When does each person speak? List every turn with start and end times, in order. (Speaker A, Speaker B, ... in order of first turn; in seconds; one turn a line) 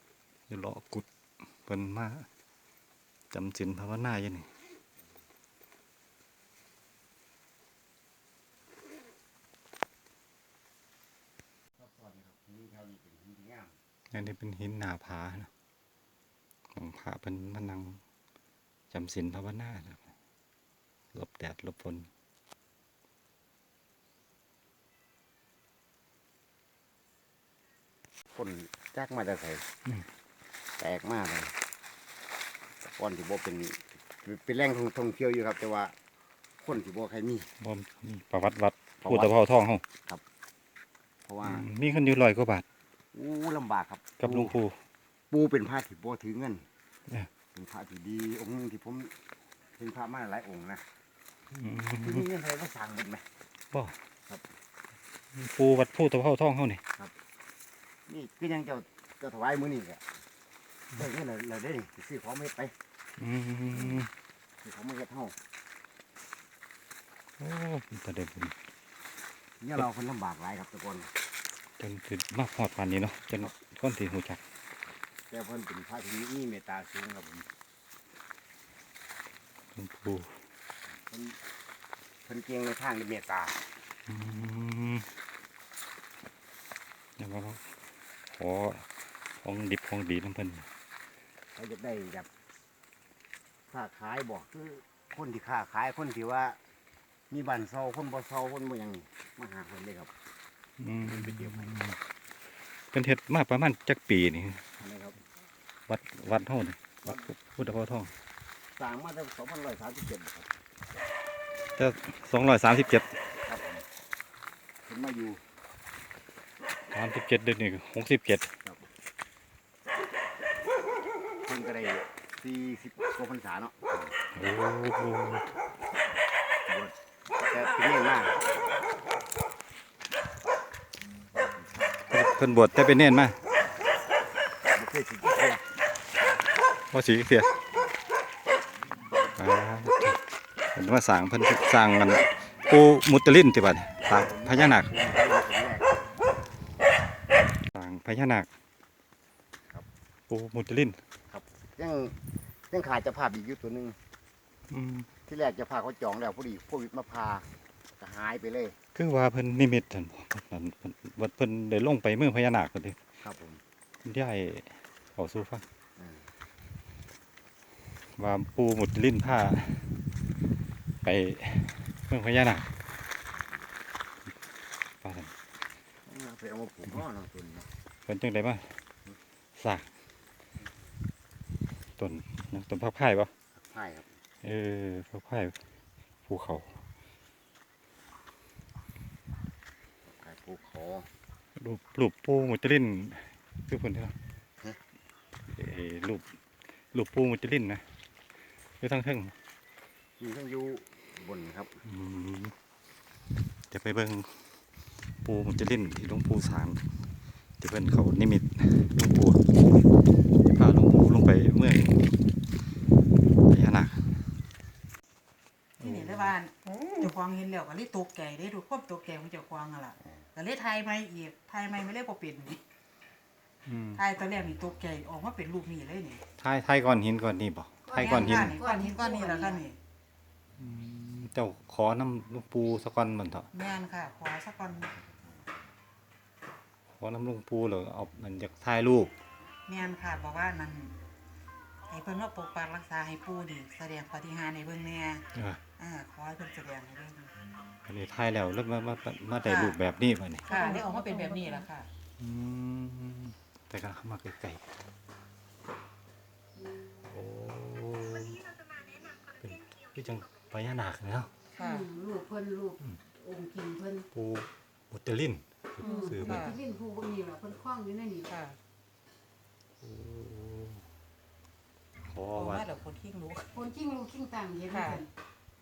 Speaker A: 0.5-1.1
Speaker A: 1.6-2.3
Speaker A: 3.3-4.5
Speaker B: 11.8-13.8
Speaker A: 14.1-15.5
Speaker A: 16.7-18.0
Speaker A: 18.9-20.1
Speaker A: 21.1-22.1
Speaker B: 28.3-29.7
Speaker B: 30.8-31.5
Speaker B: 32.8-35.9
Speaker B: 36.6-37.5
Speaker A: 37.6-39.8
Speaker B: 39.0-39.3
Speaker B: 41.2-41.6
Speaker A: 41.4-42.6
Speaker B: 43.1-44.5
Speaker A: 44.2-44.8
Speaker B: 45.3-46.7
Speaker B: 47.5-49.1
Speaker B: 49.8-50.9
Speaker A: 51.5-52.2
Speaker B: 52.0-53.2
Speaker A: 53.7-54.0
Speaker A: 55.3-56.8
Speaker B: 58.1-60.1
Speaker B: 60.9-62.7
Speaker A: 63.2-64.1
Speaker B: 63.7-64.0
Speaker B: 64.6-65.3
Speaker A: 67.4-68.5
Speaker B: 69.6-71.1
Speaker A: 71.8-74.4
Speaker B: 75.3-77.5
Speaker A: 79.7-80.4
Speaker B: 80.9-81.4
Speaker B: 82.2-83.6
Speaker A: 84.1-85.1
Speaker A: 87.2-87.7
Speaker A: 88.3-88.9
Speaker A: 89.4-90.7
Speaker B: 91.5-92.3
Speaker B: 93.7-96.6
Speaker B: 97.3-100.1
Speaker A: 100.8-102.0
Speaker B: 101.0-101.8
Speaker A: 102.9-104.7
Speaker B: 104.8-105.2
Speaker A: 105.9-108.1
Speaker B: 108.7-110.5
Speaker A: 111.8-113.2
Speaker B: 113.5-113.8
Speaker B: 114.8-115.4
Speaker A: 116.9-118.5
Speaker B: 121.4-124.1
Speaker A: 124.3-125.5
Speaker B: 126.7-128.3
Speaker B: 131.6-131.9
Speaker A: 132.1-133.4
Speaker B: 134.7-135.6
Speaker A: 136.9-137.5
Speaker A: 139.3-140.2
Speaker A: 140.7-144.9
Speaker B: 144.1-146.0
Speaker A: 147.7-148.5
Speaker A: 150.3-151.0
Speaker B: 151.3-154.0
Speaker A: 154.7-155.1
Speaker B: 155.3-158.8
Speaker A: 158.9-163.0
Speaker B: 163.2-163.6
Speaker A: 164.0-165.6
Speaker B: 166.0-166.3
Speaker A: 168.1-170.0
Speaker A: 171.0-172.7
Speaker A: 175.0-175.3
Speaker B: 176.0-177.7
Speaker A: 178.1-178.8
Speaker A: 179.5-179.9
Speaker A: 182.0-183.3
Speaker B: 183.6-184.2
Speaker A: 184.4-185.6
Speaker A: 186.2-186.8
Speaker B: 190.1-191.1
Speaker A: 191.5-194.1
Speaker A: 195.4-196.3
Speaker A: 196.9-198.0
Speaker A: 198.8-199.3
Speaker B: 200.2-201.8
Speaker A: 201.8-202.5
Speaker A: 203.7-204.6
Speaker A: 205.2-207.0
Speaker A: 207.6-209.5
Speaker A: 210.4-212.2
Speaker A: 213.4-214.4
Speaker C: 215.8-222.6
Speaker A: 215.8-216.3
Speaker A: 223.7-224.0
Speaker C: 223.9-226.2
Speaker A: 226.4-228.6
Speaker D: 227.8-229.6
Speaker C: 227.9-229.8
Speaker A: 230.6-233.5
Speaker C: 233.5-234.9
Speaker A: 236.9-239.2
Speaker C: 239.7-240.9
Speaker C: 241.9-245.3
Speaker A: 245.3-245.6
Speaker C: 245.8-247.3
Speaker A: 247.8-250.4
Speaker C: 249.4-249.8
Speaker C: 250.4-251.9
Speaker D: 250.5-251.6
Speaker A: 252.2-254.8
Speaker A: 257.1-258.6
Speaker A: 259.3-261.3
Speaker C: 261.5-261.9
Speaker D: 261.6-264.1
Speaker A: 264.1-266.5
Speaker C: 265.8-266.6
Speaker D: 265.8-268.3
Speaker C: 268.3-268.6
Speaker A: 269.8-270.9
Speaker A: 272.0-272.7
Speaker C: 272.3-273.6
Speaker D: 273.5-275.1
Speaker C: 274.7-275.0